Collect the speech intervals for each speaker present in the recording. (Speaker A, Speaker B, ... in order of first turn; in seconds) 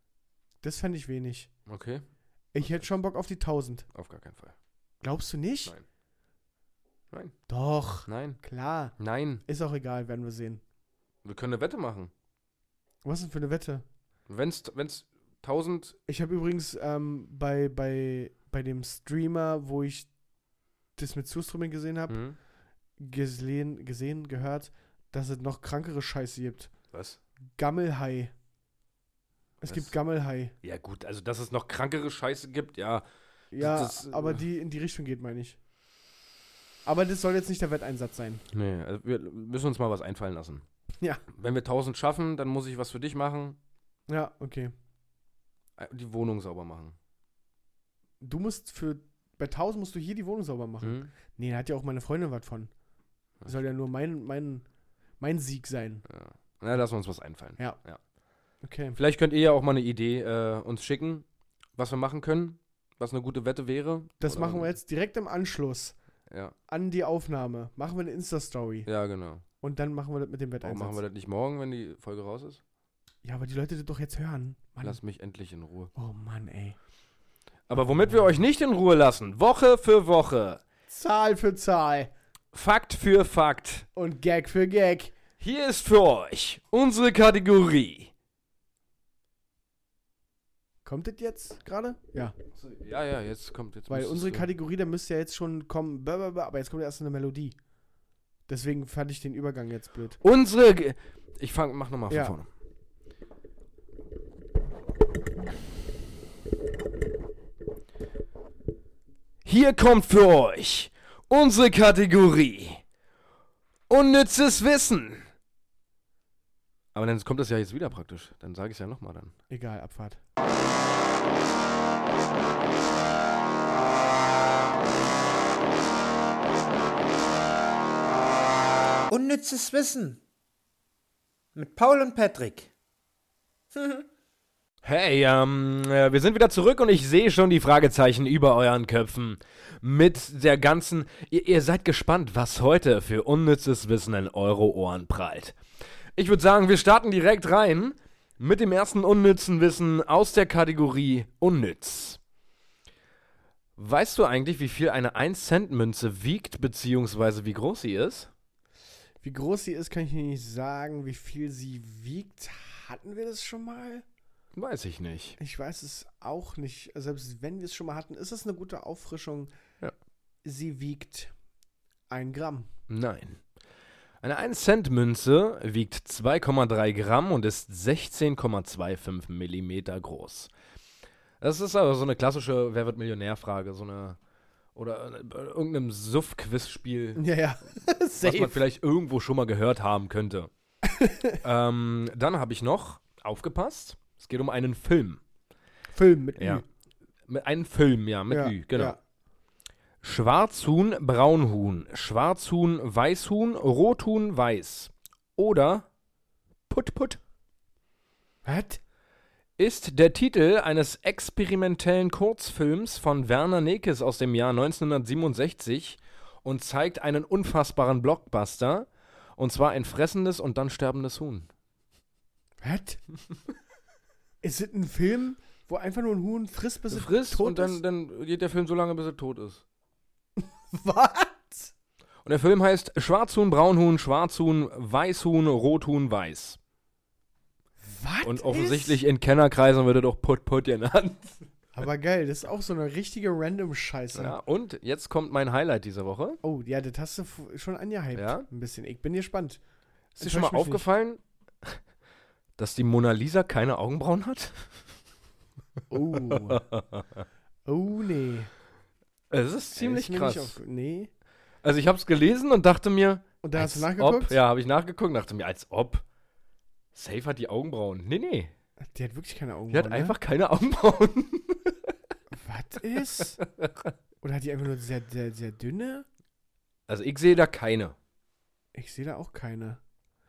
Speaker A: 0.6-1.5, 2.5-3.9, 5.0-5.7, 7.5-8.9, 9.4-10.6, 13.0-13.8, 16.1-20.1, 21.0-22.2, 23.0-26.7, 27.6-28.3, 29.6-30.5, 33.5-35.6, 36.9-38.4, 44.1-44.7, 48.2-52.7, 53.4-54.6, 55.2-56.0, 58.6-59.0, 64.2-66.0, 66.7-68.9, 69.6-71.0, 73.2-75.0, 75.9-76.8, 77.7-78.3, 80.9-82.1, 84.0-85.2, 90.8-92.3, 93.9-97.5, 98.5-100.2, 102.1-102.4, 119.5-120.2, 159.2-164.1, 165.4-169.5, 170.4-171.3, 172.1-172.7, 187.2-188.6, 190.9-191.4, 195.9-196.6, 198.3-199.0, 208.4-208.8, 222.6-223.0, 224.4-227.8, 230.4-231.7, 237.8-239.0, 241.7-244.4, 246.4-249.6, 250.2-250.9, 255.9-256.6, 257.6-258.5, 259.7-261.1, 263.4-264.4, 268.9-270.1, 272.4-273.4, 274.2-276.1, 278.7-279.8
Speaker B: 1.7-2.0, 2.6-2.9, 3.9-4.5, 8.1-8.4, 9.0-9.4, 11.2-12.1, 14.3-16.0, 22.1-22.4, 26.9-27.2, 29.6-29.9, 30.6-33.0, 33.6-34.4, 38.5-40.6, 41.3-43.6, 45.8-47.0, 50.8-51.1, 56.1-58.0, 59.0-61.2, 61.8-64.7, 66.3-66.5, 68.9-69.4, 70.6-72.6, 74.8-75.9, 77.7-80.6, 82.5-83.9, 85.4-88.1, 92.5-94.5, 100.2-102.5, 109.4-112.8, 113.9-115.3, 117.0-119.3, 134.8-145.6, 146.2-152.2, 153.8-158.3, 164.6-165.4, 172.9-173.4, 174.2-180.5, 181.4-184.2, 184.7-187.2, 188.2-190.5, 191.4-195.2, 196.4-196.6, 197.3-199.0, 200.0-205.9, 206.7-207.2, 209.6-221.5, 226.9-229.6, 232.2-236.6, 238.2-241.4, 244.1-246.4, 248.2-248.4, 250.2-251.8, 252.6-254.9, 256.2-257.2, 259.3-260.6, 261.6-266.1, 266.9-268.5, 269.7-271.9, 273.2-273.9, 276.9-277.9
Speaker C: 129.1-130.2, 131.6-132.7, 133.7-134.1